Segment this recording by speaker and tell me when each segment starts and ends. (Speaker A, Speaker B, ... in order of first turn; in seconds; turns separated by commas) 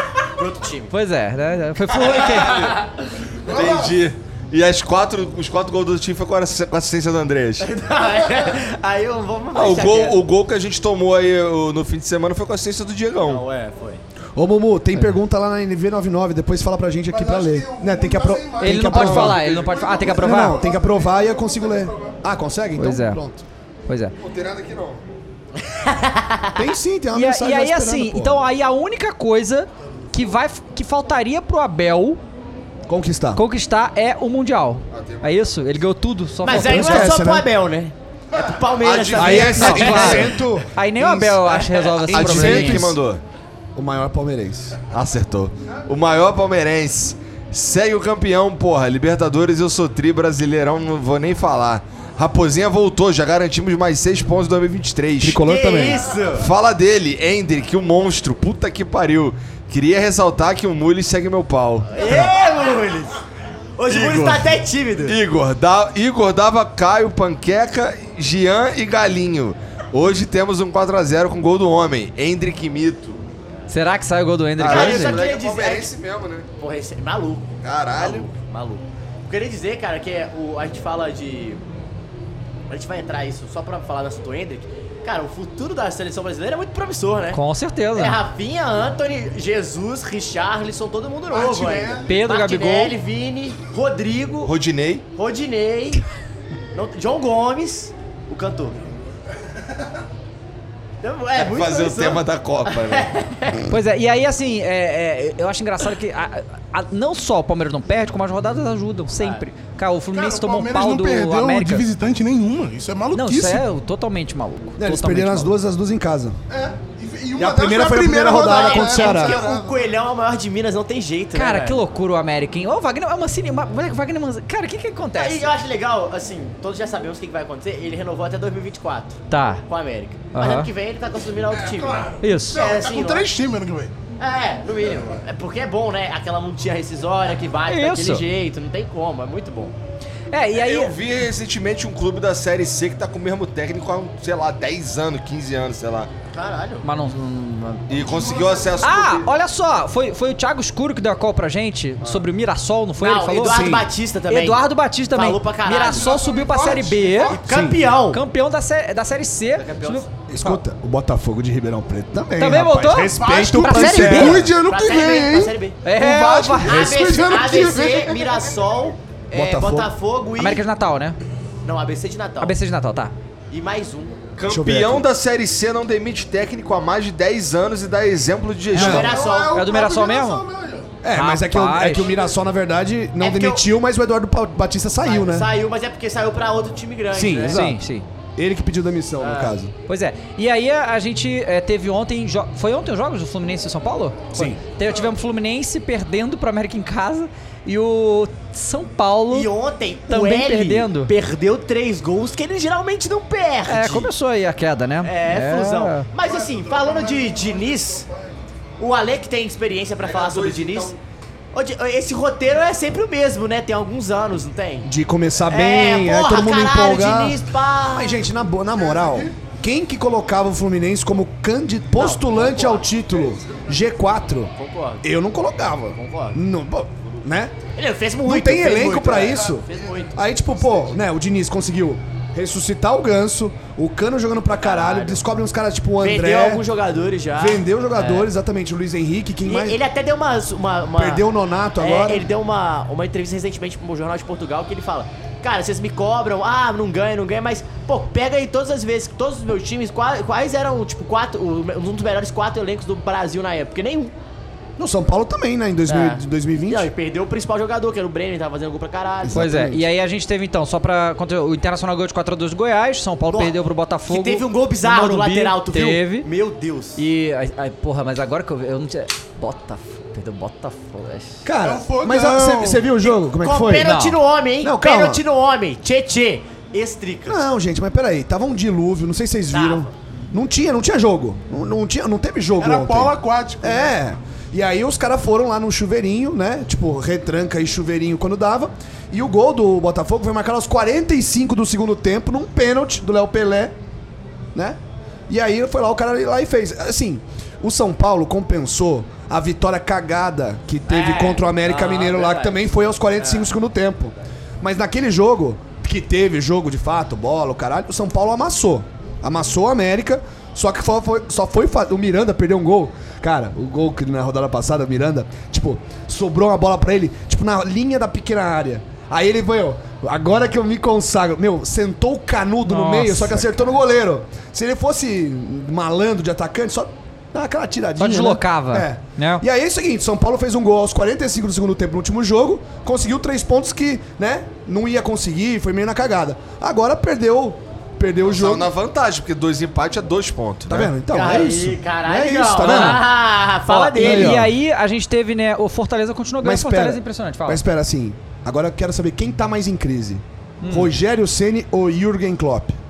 Speaker A: 0.3-0.9, Speaker B: 0.9-2.7, Speaker C: 2.2-2.7, Speaker D: 3.4-4.0, Speaker C: 3.5-7.7, Speaker A: 7.6-10.2, Speaker C: 9.5-13.4, Speaker A: 13.2-14.0, Speaker E: 14.4-19.5, Speaker D: 17.1-22.2, Speaker B: 18.6-20.6, Speaker E: 20.0-23.4, Speaker B: 22.8-23.2, Speaker B: 23.9-24.1, Speaker C: 24.2-25.0, Speaker A: 25.6-26.6, Speaker E: 26.6-28.4, Speaker B: 27.1-32.2, Speaker E: 32.9-33.4, Speaker B: 33.4-37.1, Speaker C: 34.9-35.5, Speaker A: 36.4-40.3, Speaker E: 36.5-37.5, Speaker C: 38.8-40.3, Speaker E: 39.1-43.0, Speaker B: 39.5-42.9, Speaker C: 42.1-43.2, Speaker E: 43.8-44.8, Speaker C: 44.9-55.4, Speaker E: 55.2-56.0, Speaker A: 55.5-56.5, Speaker C: 56.3-62.3, Speaker A: 61.9-63.2, Speaker A: 63.8-65.2, Speaker C: 63.9-73.2, Speaker B: 73.7-75.2, Speaker C: 74.6-76.5, Speaker A: 74.6-75.9, Speaker A: 76.6-81.6, Speaker C: 77.6-78.3, Speaker A: 82.7-87.4, Speaker B: 87.3-88.2, Speaker A: 87.9-94.5, Speaker D: 91.3-92.2, Speaker B: 92.1-93.0, Speaker C: 94.5-95.0, Speaker A: 95.2-96.0, Speaker A: 96.7-98.9, Speaker A: 101.0-103.7, Speaker C: 101.4-103.1, Speaker B: 103.7-111.8, Speaker A: 109.2-109.5, Speaker D: 110.1-113.7, Speaker B: 113.1-115.5, Speaker E: 114.8-116.4, Speaker D: 116.5-119.8, Speaker E: 117.4-119.4, Speaker A: 118.4-121.8, Speaker B: 121.3-125.5, Speaker A: 125.2-133.3, Speaker B: 129.3-129.6, Speaker B: 130.3-130.7, Speaker D: 131.5-133.9, Speaker B: 132.2-132.6, Speaker A: 134.2-139.8, Speaker B: 137.7-138.2, Speaker B: 140.3-140.9, Speaker C: 140.6-146.1, Speaker A: 146.3-146.8, Speaker B: 146.8-147.8, Speaker C: 147.9-149.3, Speaker D: 148.0-148.8, Speaker B: 148.8-153.6, Speaker A: 153.0-156.1, Speaker E: 153.4-153.9, Speaker B: 154.3-157.4, Speaker D: 155.8-157.4, Speaker A: 157.3-158.2, Speaker E: 157.5-157.8, Speaker B: 158.1-160.6, Speaker A: 159.6-160.1, Speaker E: 160.3-164.5, Speaker B: 162.4-164.4, Speaker D: 163.1-168.5, Speaker A: 164.6-165.9, Speaker B: 165.8-166.8, Speaker A: 166.6-170.6, Speaker E: 169.3-169.9, Speaker B: 170.4-171.2, Speaker A: 171.6-172.6, Speaker B: 172.4-173.1, Speaker A: 173.5-174.2, Speaker C: 174.4-179.2, Speaker E: 174.4-175.1, Speaker E: 178.7-179.1, Speaker A: 178.7-179.8, Speaker D: 178.9-180.9, Speaker B: 179.5-180.4, Speaker E: 181.0-185.5, Speaker B: 181.1-182.1, Speaker A: 183.2-183.6, Speaker A: 185.0-187.6, Speaker E: 187.1-187.8, Speaker B: 187.5-188.1, Speaker E: 188.4-189.7, Speaker A: 189.2-189.6, Speaker B: 189.9-199.5, Speaker E: 194.3-194.6, Speaker A: 199.3-204.1, Speaker B: 200.1-201.1, Speaker B: 203.7-206.1, Speaker A: 205.0-208.1, Speaker D: 206.2-208.4, Speaker A: 208.8-210.9, Speaker C: 210.0-211.0, Speaker A: 211.5-214.9, Speaker E: 214.8-227.5, Speaker A: 215.5-218.2, Speaker D: 218.8-219.3, Speaker A: 222.0-222.9, Speaker A: 224.6-225.1, Speaker A: 226.0-226.4, Speaker A: 227.8-230.2, Speaker E: 228.2-236.6, Speaker D: 229.7-230.9, Speaker A: 234.5-235.2, Speaker A: 236.0-238.3, Speaker E: 237.3-239.8, Speaker A: 239.4-241.2, Speaker E: 241.0-242.3, Speaker A: 241.8-254.1, Speaker E: 254.8-256.9, Speaker A: 255.9-259.4, Speaker E: 259.2-259.9, Speaker B: 259.3-266.3, Speaker A: 263.3-267.0, Speaker B: 267.0-271.4, Speaker E: 271.4-274.0, Speaker D: 271.6-272.9, Speaker A: 273.1-277.4, Speaker B: 273.8-274.2, Speaker E: 274.6-275.2, Speaker E: 277.3-293.8, Speaker A: 279.5-279.9, Speaker D: 282.6-283.9, Speaker E: 294.6-338.7, Speaker A: 300.9-303.5, Speaker B: 322.7-323.6, Speaker B: 328.0-329.4, Speaker C: 338.2-340.9, Speaker E: 340.7-343.0, Speaker A: 341.1-344.5, Speaker B: 342.6-343.0, Speaker B: 343.7-347.6, Speaker E: 344.0-344.5, Speaker E: 346.4-352.8, Speaker B: 350.6-350.9